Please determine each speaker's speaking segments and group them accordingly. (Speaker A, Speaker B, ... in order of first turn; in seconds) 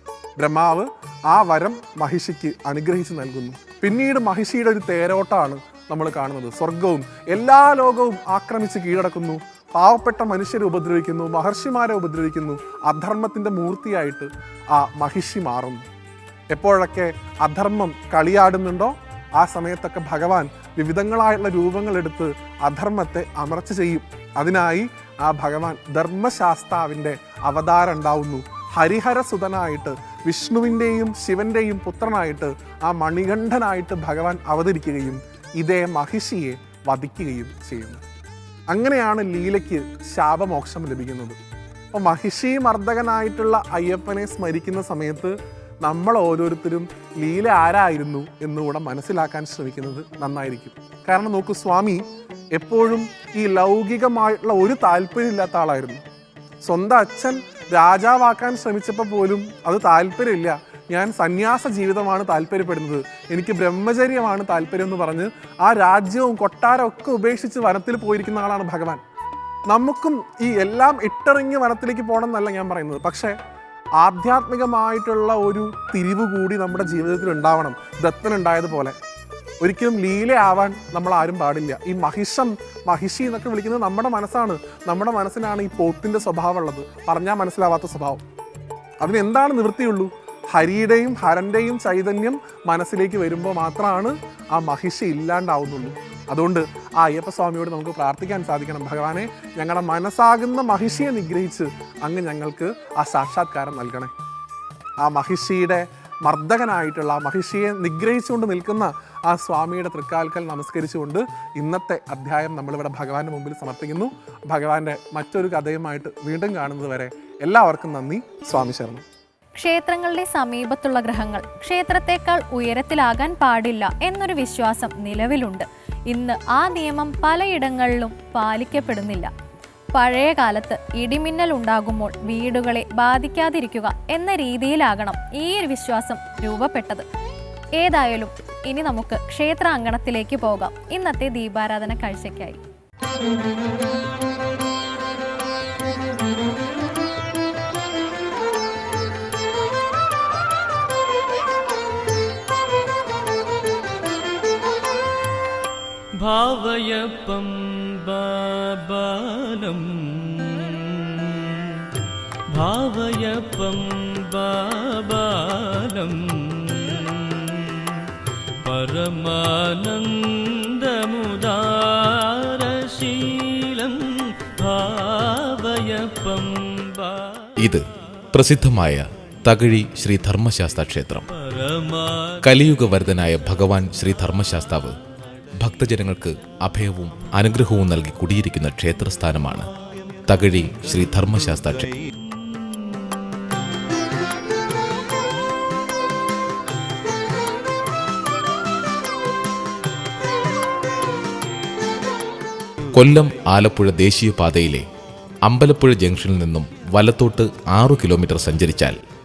Speaker A: 0.4-15.8, 16.5-38.0, 38.7-41.4, 41.9-52.0, 52.5-56.0, 56.6-69.0, 69.7-73.3, 74.0-79.0, 79.6-88.2, 89.0-104.1, 105.0-119.0
Speaker B: 119.6-129.3, 129.9-137.0, 137.8-142.6
Speaker C: 156.2-161.9, 162.5-168.1, 168.6-177.5, 181.3-182.4, 192.3-193.1
Speaker D: 177.6-181.3, 182.4-184.9, 185.6-189.7, 190.3-191.9, 202.9-204.8, 205.4-209.0